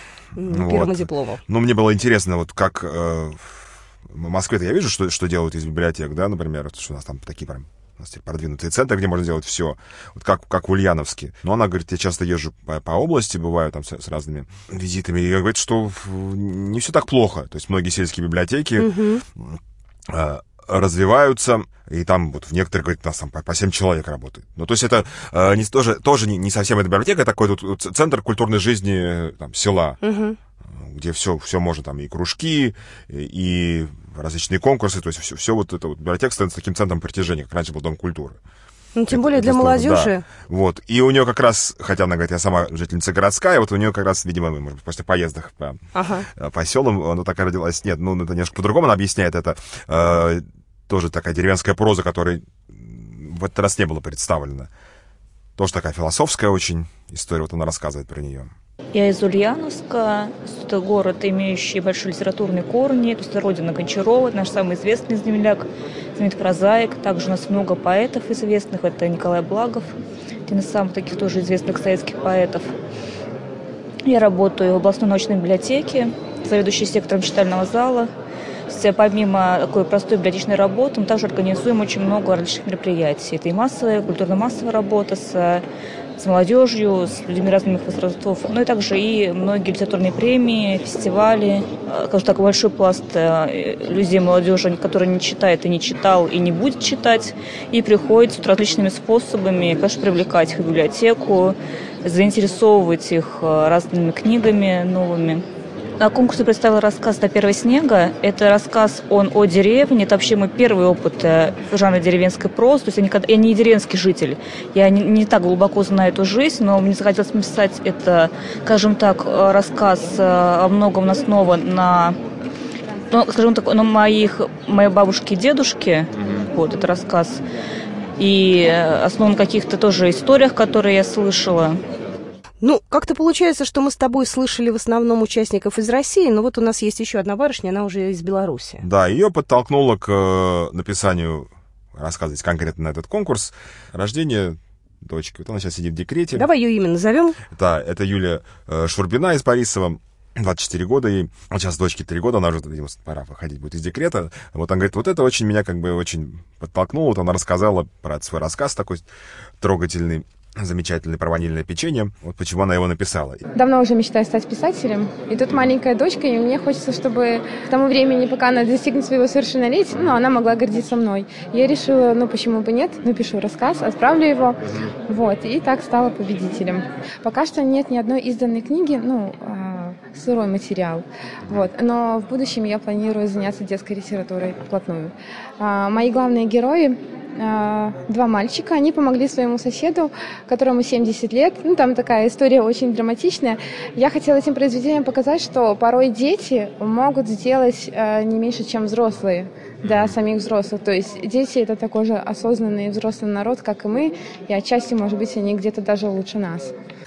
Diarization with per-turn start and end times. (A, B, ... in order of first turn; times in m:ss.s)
0:00.4-0:01.4 A
0:00.5-0:30.0 B
0:18.8-0:19.2 A
0:30.0-0:30.4 A
0:30.7-0:38.4 B
0:38.9-0:40.2 A
0:39.1-0:54.7 B
0:45.9-0:46.3 A
0:55.6-0:58.5 B
0:58.9-1:09.9 C
1:10.5-1:12.7 C
1:14.0-1:18.1 C
1:18.7-1:25.6 C
1:26.2-1:45.4 C
1:46.0-2:02.2 C
2:03.1-2:07.4 C
2:08.2-2:11.8 C
2:12.6-2:18.8 A
2:18.8-2:26.5 B
2:26.3-2:27.4 A
2:27.5-2:39.0 B
2:39.6-2:43.4 B
2:43.5-3:26.7 D